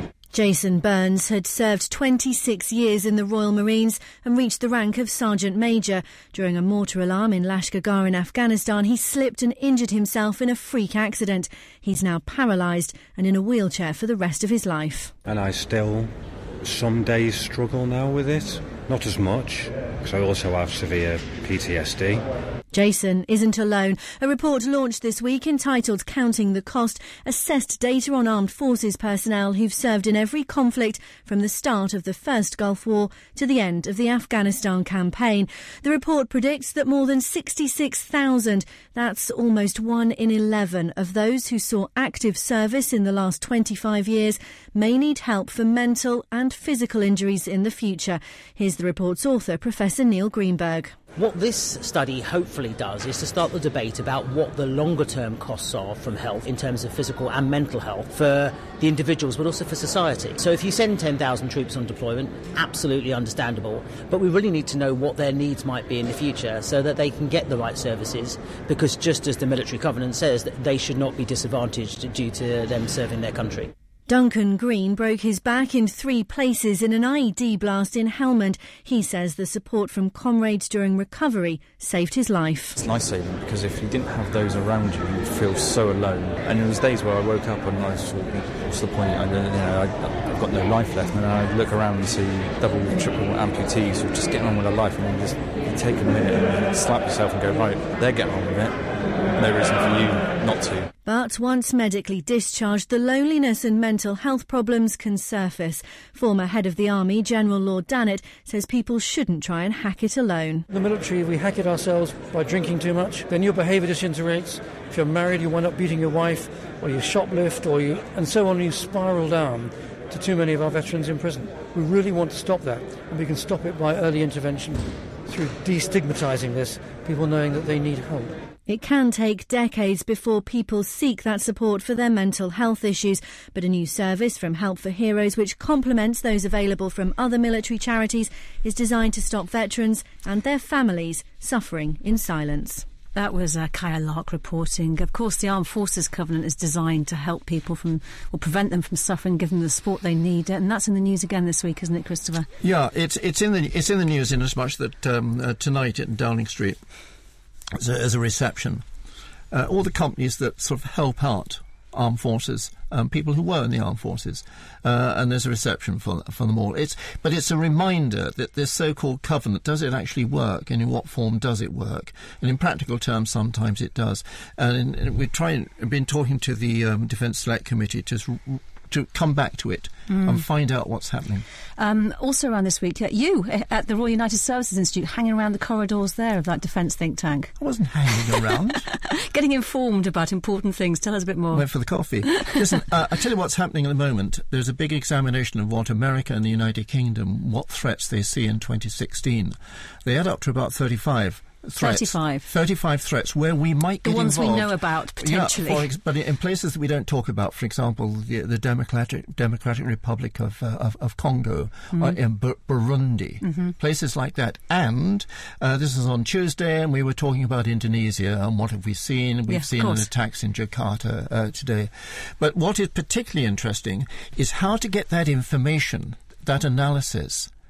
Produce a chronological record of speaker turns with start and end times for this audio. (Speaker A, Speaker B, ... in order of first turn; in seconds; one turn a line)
Speaker A: 0.3-15.1
Speaker B: 15.2-22.3
Speaker A: 22.7-51.0
Speaker C: 51.2-73.7
Speaker A: 74.1-82.8
Speaker D: 82.8-98.8
Speaker D: 99.3-100.9
Speaker A: 101.1-110.7
Speaker E: 110.7-128.4
Speaker A: 128.7-142.8
Speaker F: 143.2-152.5
Speaker G: 152.6-156.8
Speaker G: 157.8-158.8
Speaker G: 159.5-181.4
Speaker F: 180.1-180.4
Speaker F: 181.8-187.5
Speaker G: 187.6-188.9
Speaker F: 188.9-191.7
Speaker G: 191.5-227.5
Speaker F: 201.8-202.5
Speaker F: 204.0-205.9
Speaker F: 213.4-213.7
Speaker F: 219.5-220.1